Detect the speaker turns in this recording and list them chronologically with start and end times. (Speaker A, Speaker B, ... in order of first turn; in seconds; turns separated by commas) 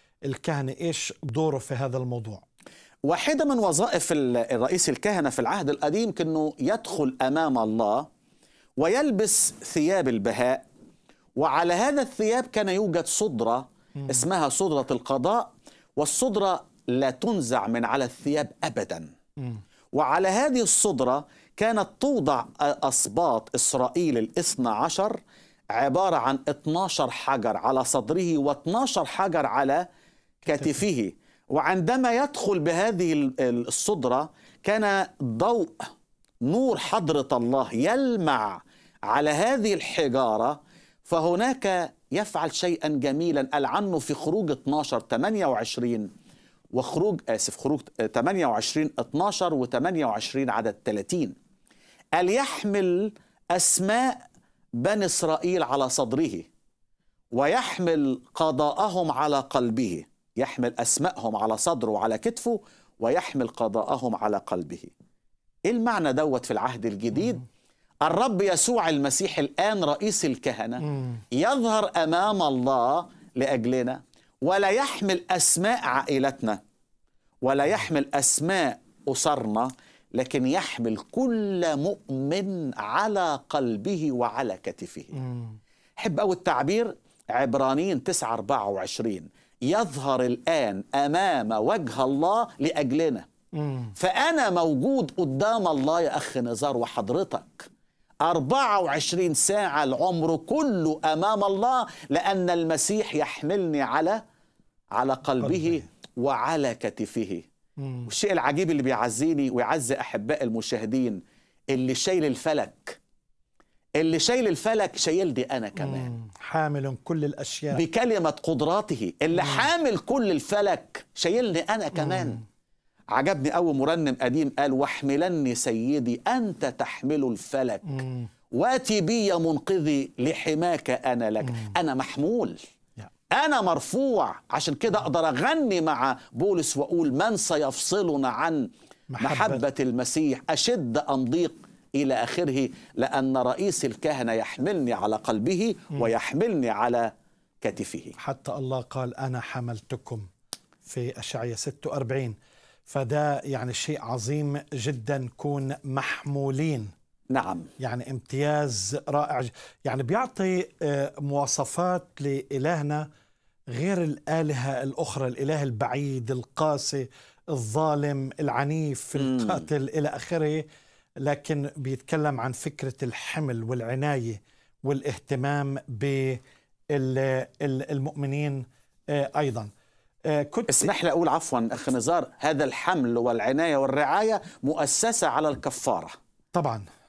Speaker A: 0.3-2.4, Speaker B: 3.0-8.1, Speaker B: 8.8-10.7, Speaker B: 11.4-19.1, Speaker B: 19.9-25.2, Speaker B: 25.7-29.9, Speaker B: 30.4-35.8, Speaker A: 30.5-30.8, Speaker B: 36.5-46.1, Speaker B: 46.7-51.3, Speaker B: 52.2-54.2, Speaker B: 54.8-56.5, Speaker B: 57.3-64.9, Speaker B: 65.7-67.4, Speaker B: 68.0-76.6, Speaker B: 77.4-85.2, Speaker A: 85.2-85.6, Speaker B: 86.0-93.2, Speaker A: 93.6-93.9, Speaker B: 94.0-97.7, Speaker B: 98.2-104.2, Speaker B: 104.9-107.5, Speaker A: 105.5-105.8, Speaker A: 107.8-108.1, Speaker B: 108.0-111.2, Speaker B: 111.7-113.0, Speaker B: 114.0-116.1, Speaker A: 115.8-117.8, Speaker B: 117.7-122.4, Speaker B: 123.1-132.6, Speaker A: 127.9-128.3, Speaker B: 133.3-138.7, Speaker A: 139.1-139.6, Speaker B: 139.2-147.1, Speaker B: 147.6-148.1, Speaker A: 148.2-150.2, Speaker A: 150.8-152.3, Speaker A: 152.9-156.9, Speaker B: 157.3-157.7, Speaker A: 157.8-163.1, Speaker A: 163.7-170.6, Speaker B: 169.2-169.7, Speaker A: 171.2-176.4, Speaker A: 176.9-179.7, Speaker A: 180.3-180.9, Speaker B: 180.7-186.2, Speaker A: 186.5-186.8